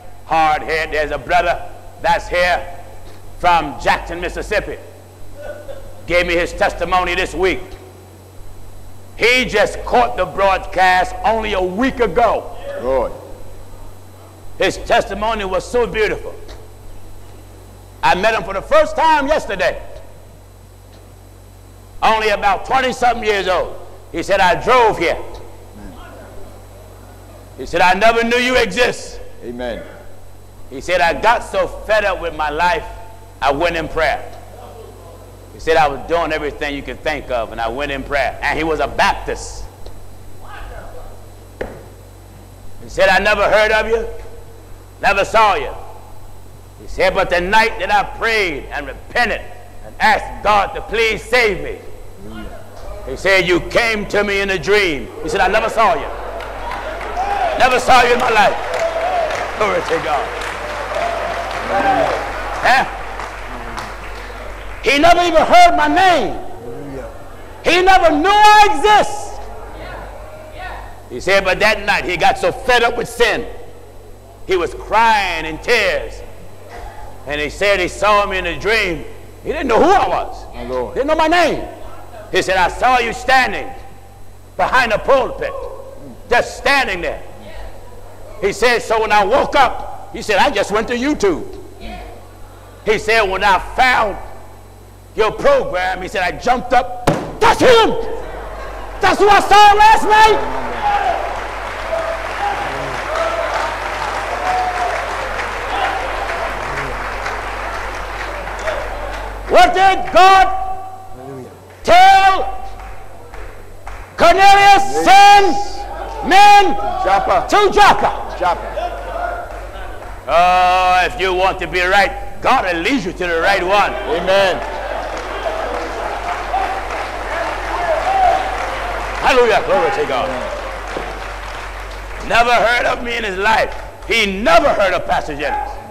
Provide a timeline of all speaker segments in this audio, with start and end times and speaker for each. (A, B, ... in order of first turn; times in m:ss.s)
0:00.3-0:02.7 A
0:03.4-0:04.8 A
0:06.1-0:07.8 A
0:09.2-0:12.6 A
0:12.8-0:13.2 B
0:14.6-0:16.4 A
0:18.0-0:19.8 A
0:22.0-0:25.2 A
0:27.6-0:29.2 A
0:29.4-0:29.8 B
0:30.7-0:34.3 A
0:35.5-0:39.7 A
0:42.8-0:44.1 A
0:45.0-0:45.8 A
0:46.8-0:51.8 A
0:52.2-0:52.5 B
0:53.1-0:56.1 A
0:57.6-0:58.7 A
0:59.5-1:00.3 A
1:01.6-1:02.1 B
1:02.6-1:02.9 A
1:04.8-1:06.5 A
1:06.7-1:07.1 B
1:07.6-1:09.4 A
1:11.1-1:13.5 A
1:14.5-1:16.2 A
1:17.3-1:21.7 A
1:20.5-1:21.0 B
1:22.3-1:23.7 A
1:24.6-1:25.8 A
1:26.3-1:27.2 A
1:28.4-1:31.6 A
1:32.8-1:34.2 A
1:35.2-1:38.2 A
1:39.0-1:40.4 A
1:40.3-1:40.9 B
1:49.5-1:50.8 A
1:51.8-1:52.6 A
1:54.2-1:56.9 A
1:54.8-1:55.8 B
1:56.8-1:57.5 B
1:57.5-1:58.2 A
1:58.3-1:58.8 B
2:00.3-2:04.0 A
2:04.1-2:04.6 B
2:09.2-2:10.4 A
2:12.2-2:15.7 A